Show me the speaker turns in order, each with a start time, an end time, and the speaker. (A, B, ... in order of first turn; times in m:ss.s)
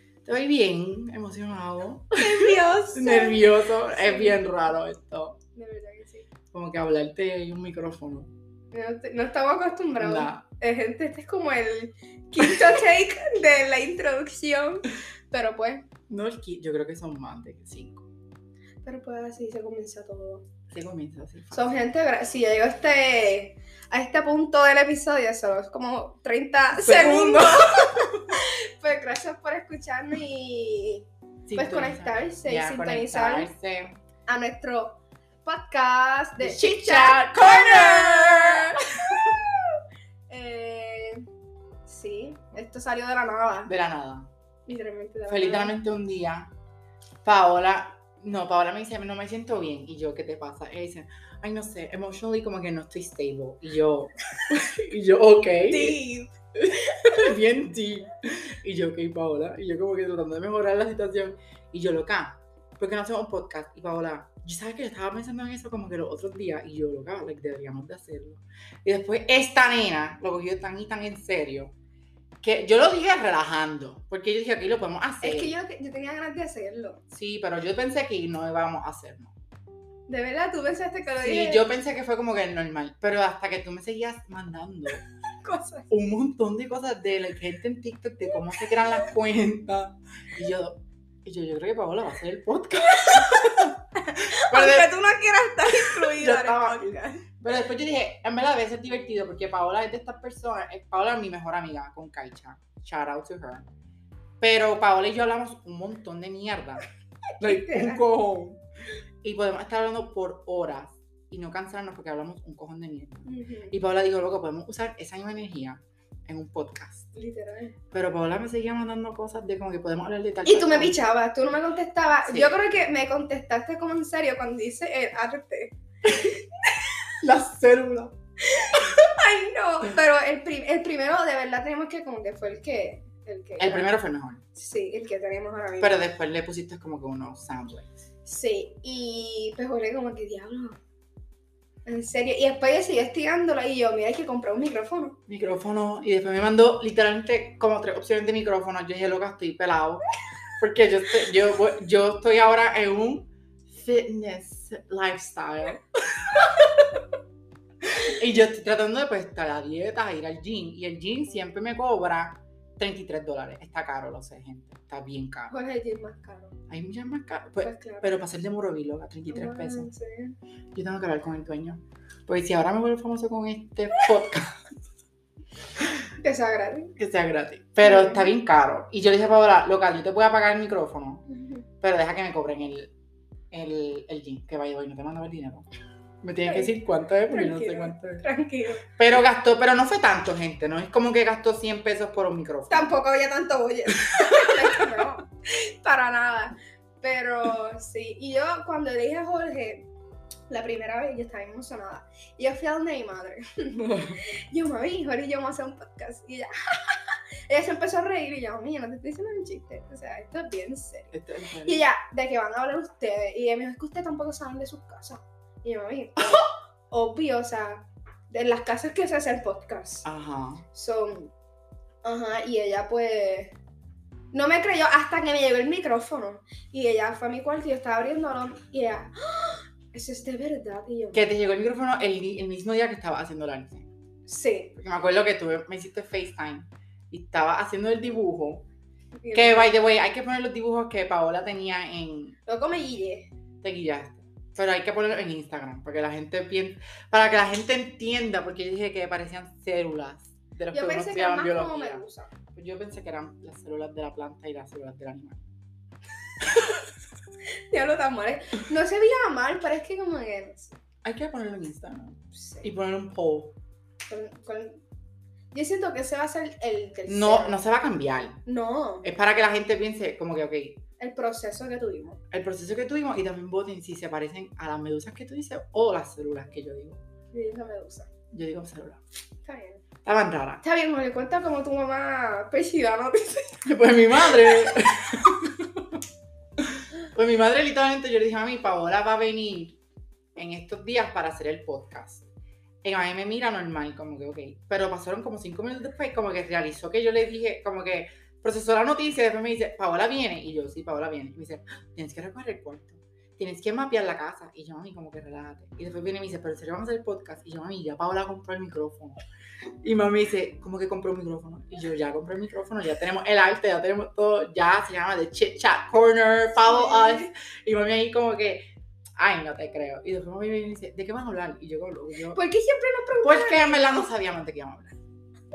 0:00.2-0:05.4 A
0:02.2-0:04.4 B
0:05.5-0:06.3 B
0:06.5-0:08.3 A
0:08.7-0:15.9 B
0:10.0-0:10.4 A
0:16.1-0:18.1 A
0:18.8-0:20.4 B
0:20.7-0:21.7 A
0:21.5-0:33.5 B
0:26.8-0:28.4 A
0:31.4-0:34.0 A
0:34.3-0:39.8 B
0:36.4-0:39.4 A
0:40.3-0:41.2 B
0:41.8-0:43.7 B
0:43.6-0:44.3 A
0:44.6-0:45.7 B
0:45.3-0:46.5 A
0:47.2-0:56.0 A
0:55.7-0:57.3 B
0:57.0-1:11.7 A
1:12.4-1:15.5 A
1:15.2-1:17.0 B
1:17.1-1:19.3 A
1:20.1-1:21.7 B
1:21.2-1:25.0 A
1:25.4-1:25.9 B
1:25.9-1:34.9 A
1:32.9-1:37.3 B
1:35.6-1:43.7 A
1:44.4-1:46.8 A
1:47.4-1:48.6 A
1:47.4-1:48.0 B
1:49.2-1:57.1 A
1:53.2-1:53.8 B
1:57.1-1:57.8 B
1:57.9-2:01.0 A
2:00.4-2:06.3 B
2:02.2-2:02.6 A
2:07.2-2:08.1 A
2:08.4-2:13.9 B
2:13.6-2:14.4 A
2:14.5-2:16.0 B
2:15.8-2:17.9 A
2:18.2-2:20.8 B
2:21.8-2:25.2 B
2:25.3-2:30.0 A
2:30.6-2:37.0 A
2:37.8-2:45.5 A
2:45.5-2:46.6 B
2:46.7-2:49.9 A
2:47.6-2:48.1 B
2:49.3-2:50.4 B
2:50.7-2:54.6 A
2:56.2-2:56.9 B
2:57.0-3:01.2 A
2:57.8-2:58.3 B
3:01.3-3:01.6 B
3:01.8-3:02.9 A
3:03.5-3:05.7 A
3:06.2-3:08.2 A
3:06.4-3:06.7 B
3:07.3-3:08.9 B
3:09.0-3:12.9 A
3:12.7-3:19.9 B
3:14.0-3:15.0 A
3:20.5-3:31.1 B
3:23.8-3:24.2 A
3:31.1-3:31.8 A
3:31.6-3:40.0 B
3:40.0-3:40.6 A
3:40.7-3:41.3 B
3:42.0-3:43.6 B
3:44.3-3:51.2 B
3:51.1-3:53.9 A
3:54.3-3:54.7 B
3:54.8-3:58.6 A
3:59.2-3:59.7 B
3:59.3-4:02.4 A
4:02.4-4:03.3 B
4:03.6-4:15.5 A
4:10.7-4:12.3 B
4:16.4-4:16.7 A
4:17.7-4:20.8 B
4:21.0-4:23.6 A
4:22.3-4:22.7 B
4:24.1-4:24.8 B
4:25.5-4:27.6 B
4:27.1-4:28.4 A
4:28.4-4:29.1 B
4:29.0-4:30.8 A
4:31.0-4:32.2 B
4:32.3-4:37.0 A
4:37.3-4:38.1 B
4:38.3-4:39.0 A
4:39.4-4:39.8 B
4:40.0-4:40.6 A
4:40.6-4:43.6 B
4:43.6-4:46.0 A
4:46.6-4:49.8 A
4:50.3-4:52.3 A
4:52.8-5:09.2 A
5:09.8-5:22.4 A
5:16.6-5:17.3 B
5:22.3-5:24.1 B
5:23.2-5:25.0 A